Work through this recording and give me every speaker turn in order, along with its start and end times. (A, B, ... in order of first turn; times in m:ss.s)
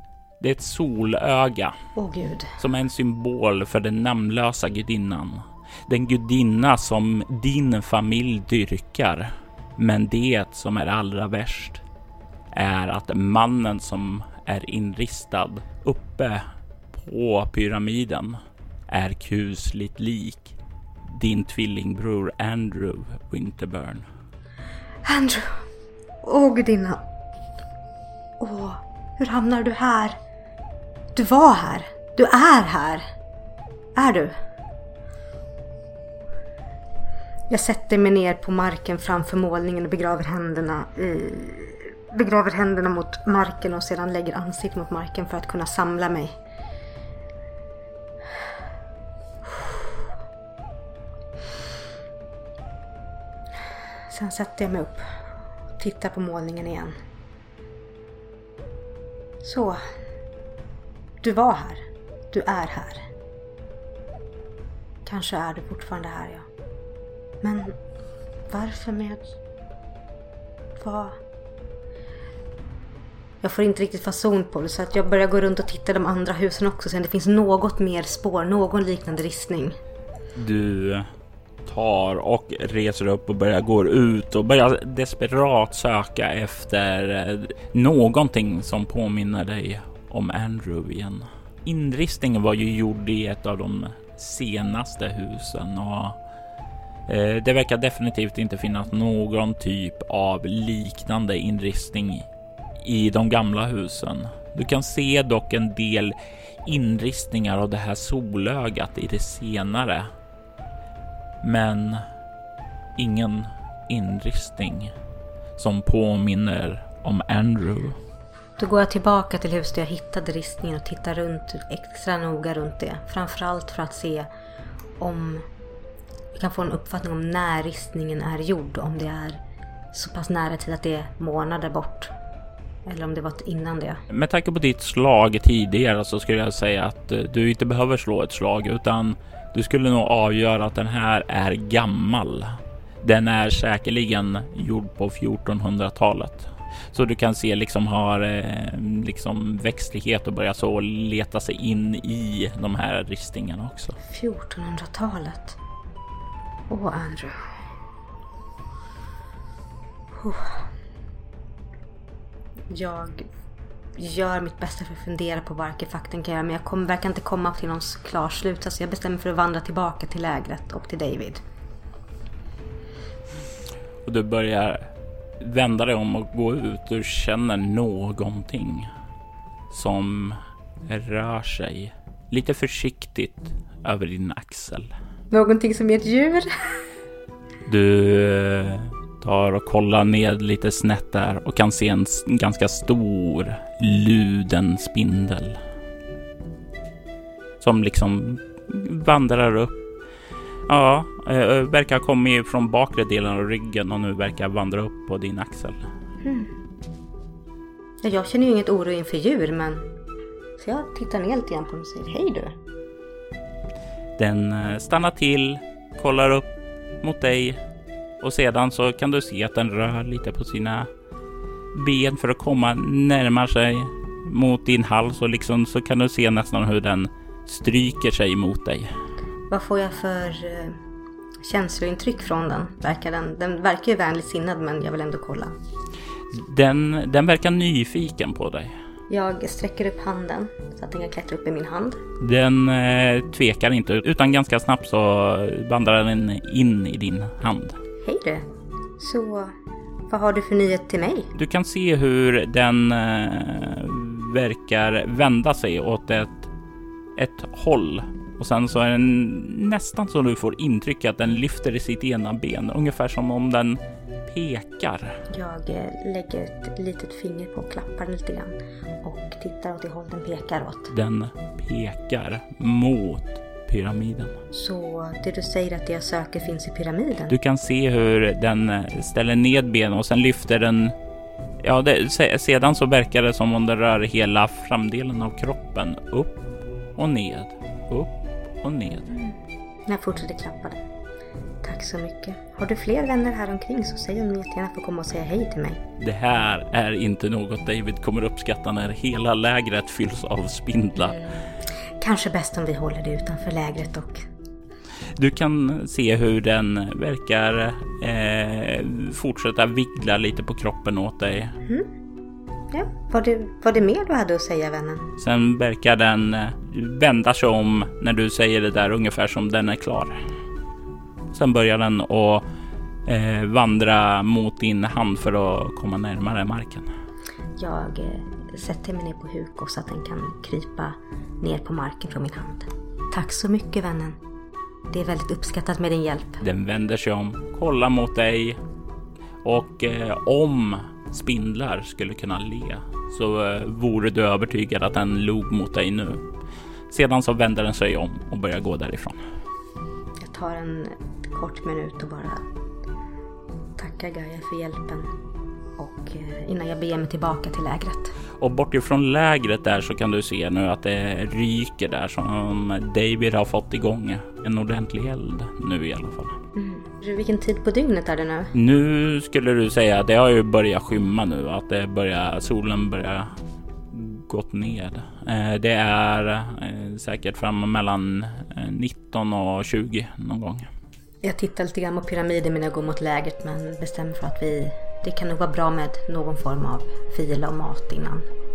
0:00.4-0:01.8 A
0:02.0-0:02.6 B
0:02.6-0:11.8 A
0:12.5-0:24.1 A
0:25.0-0:25.7 B
0:26.2-0:27.0 B
0:28.4-0:30.2 B
0:31.2-0:33.0 B
0:34.0-0:34.4 B
0:37.5-0:46.3 B
0:49.4-0:50.0 B
0:54.1-0:55.2 B
0:55.8-0:57.0 B
0:59.4-0:59.8 B
1:01.2-1:03.1 B
1:05.0-1:06.5 B
1:07.4-1:07.8 B
1:08.5-1:09.3 B
1:10.8-1:11.2 B
1:13.4-1:19.8 B
1:20.4-1:21.1 A
1:21.7-1:36.2 A
1:37.1-1:42.3 A
1:42.8-1:50.1 A
1:51.4-1:52.0 A
1:53.0-1:54.9 A
1:55.6-1:58.0 A
1:58.6-2:04.3 B
2:05.0-2:05.5 B
2:06.4-2:09.4 B
2:09.9-2:12.1 B
2:12.8-2:14.0 B
2:14.1-2:34.0 A
2:34.1-2:35.6 B
2:36.7-2:37.6 B
2:40.2-2:40.7 B
2:42.7-2:43.3 B
2:44.0-2:51.4 B
2:54.0-2:58.9 A
2:59.7-3:04.9 A
3:05.3-3:06.8 B
3:07.6-3:15.6 A
3:17.6-3:19.8 A
3:20.7-3:25.9 A
3:26.2-3:26.5 B
3:28.0-3:29.9 B
3:30.6-3:32.6 B
3:34.2-3:36.5 A
3:37.0-3:37.6 A
3:38.2-3:40.9 A
3:41.7-3:48.9 A
3:49.5-3:50.8 B
3:51.4-3:55.5 B
3:56.3-3:58.8 A
3:59.1-4:02.0 B
4:02.2-4:07.8 A
4:08.0-4:09.5 B
4:10.1-4:11.3 B
4:11.4-4:16.5 A
4:17.2-4:25.2 A
4:25.3-4:30.9 B
4:30.9-4:34.4 A
4:34.5-4:37.3 B
4:37.3-4:41.0 A
4:41.6-4:46.4 A
4:47.0-4:49.1 A
4:49.9-4:50.8 B
4:51.6-4:55.8 B
4:56.0-5:01.3 A
5:01.0-5:01.4 B
5:02.0-5:04.3 B
5:05.2-5:11.6 A
5:12.7-5:15.1 B
5:15.2-5:20.2 A
5:21.3-5:22.4 A
5:23.1-5:26.9 A
5:27.6-5:34.2 B
5:34.9-5:36.4 B
5:36.4-5:38.6 A
5:39.4-5:46.2 A
5:46.9-5:49.2 A
5:50.2-5:52.4 B
5:53.8-5:55.1 B
5:55.8-5:58.2 B
5:58.4-6:06.4 A
6:06.6-6:08.5 B
6:08.5-6:13.3 A
6:13.9-6:20.7 A
6:21.2-6:28.3 B